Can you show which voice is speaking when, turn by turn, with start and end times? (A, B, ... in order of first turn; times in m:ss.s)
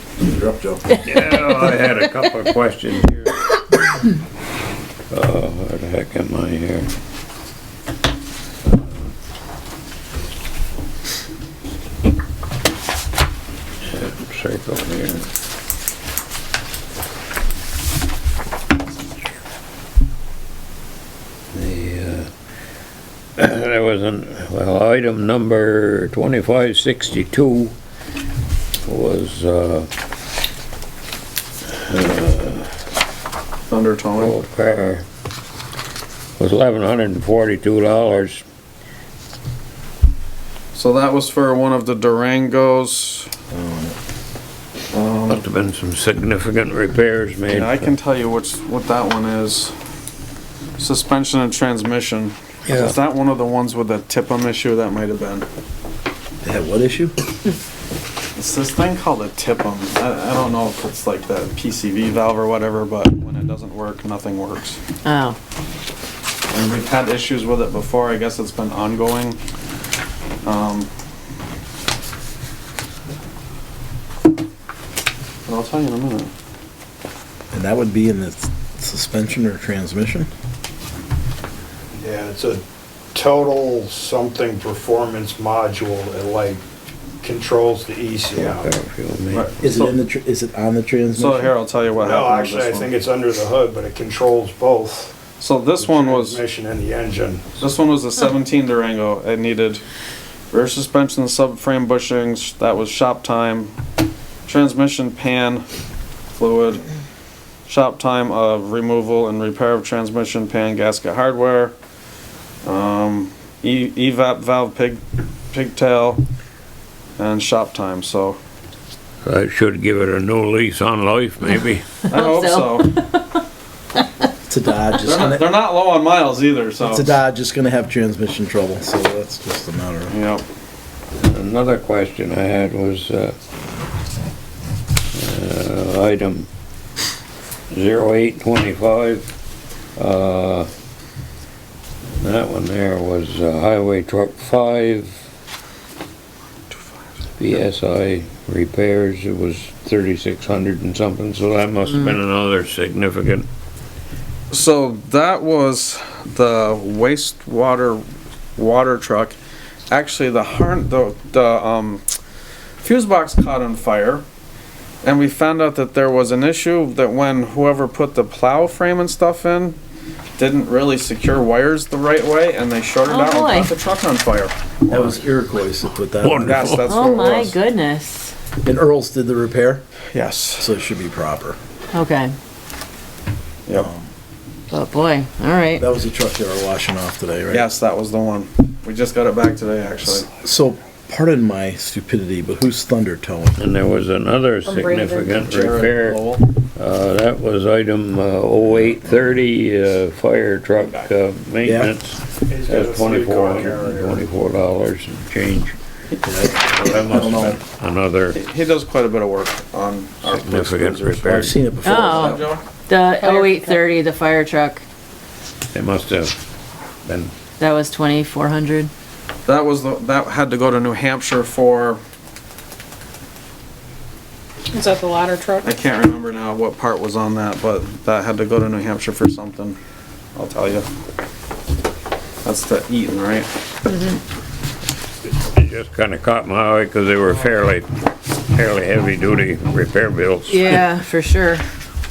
0:00.2-0:00.8 A
0:01.0-0:02.3 B
0:01.0-0:03.5 C
0:05.1-0:06.9 C
0:13.9-0:15.3 C
0:21.5-0:22.3 C
0:23.4-0:27.8 C
0:28.9-0:29.9 C
0:31.8-0:32.7 C
0:33.7-0:34.4 D
0:34.2-0:35.0 C
0:36.4-0:38.4 C
0:40.7-0:43.3 D
0:43.5-0:44.0 A
0:44.9-0:45.4 D
0:45.3-0:47.9 C
0:47.5-0:49.8 D
0:50.8-0:55.5 D
0:52.7-0:53.0 C
0:56.4-0:57.2 A
0:58.4-1:04.8 D
1:05.0-1:05.4 B
1:06.5-1:09.4 D
1:10.4-1:10.9 D
1:15.5-1:16.3 D
1:17.5-1:20.3 A
1:21.9-1:22.6 E
1:23.1-1:26.6 E
1:27.2-1:28.7 E
1:28.4-1:29.6 C
1:29.3-1:29.9 D
1:29.6-1:31.5 A
1:31.2-1:32.9 D
1:32.0-1:35.2 E
1:35.4-1:36.4 D
1:35.8-1:37.6 E
1:37.6-1:39.8 D
1:40.5-1:43.7 D
1:44.5-1:45.6 D
1:46.4-1:46.8 D
1:47.7-1:51.8 D
1:52.6-1:56.2 D
1:57.2-1:58.4 D
1:59.2-2:02.0 C
2:01.5-2:03.4 B
2:02.1-2:02.9 D
2:04.5-2:05.5 A
2:05.0-2:07.1 D
2:06.8-2:10.1 A
2:10.1-2:10.4 D
2:11.2-2:13.4 C
2:15.1-2:16.5 C
2:17.7-2:19.3 C
2:20.0-2:20.7 C
2:22.2-2:25.1 C
2:26.7-2:27.2 D
2:27.4-2:33.5 C
2:34.5-2:38.0 D
2:38.6-2:39.4 D
2:39.9-2:42.0 D
2:42.8-2:44.2 D
2:45.0-2:49.8 D
2:50.4-2:55.3 D
2:53.1-2:53.7 B
2:54.9-2:56.7 A
2:56.2-2:57.0 C
2:56.4-2:57.6 D
2:56.9-2:58.3 B
2:58.6-2:59.8 A
3:00.1-3:00.8 D
3:00.6-3:01.6 A
3:01.9-3:02.3 B
3:03.7-3:04.1 A
3:04.7-3:05.9 B
3:05.8-3:07.7 A
3:07.5-3:10.3 D
3:10.2-3:13.6 A
3:13.6-3:25.8 C
3:14.6-3:15.5 F
3:15.4-3:16.5 D
3:18.6-3:19.4 A
3:21.6-3:21.9 A
3:22.5-3:24.3 E
3:26.2-3:27.6 A
3:26.8-3:28.4 C
3:28.3-3:31.4 D
3:30.3-3:31.6 C
3:31.3-3:32.5 A
3:31.8-3:34.8 B
3:32.0-3:32.6 D
3:33.2-3:33.8 F
3:35.7-3:36.4 C
3:37.0-3:37.3 C
3:37.6-3:38.9 B
3:39.5-3:42.0 D
3:44.7-3:45.7 F
3:45.6-3:49.8 D
3:50.4-3:50.9 D
3:52.4-3:53.5 D
3:55.5-3:57.9 C
3:58.4-4:00.8 C
4:00.5-4:01.6 B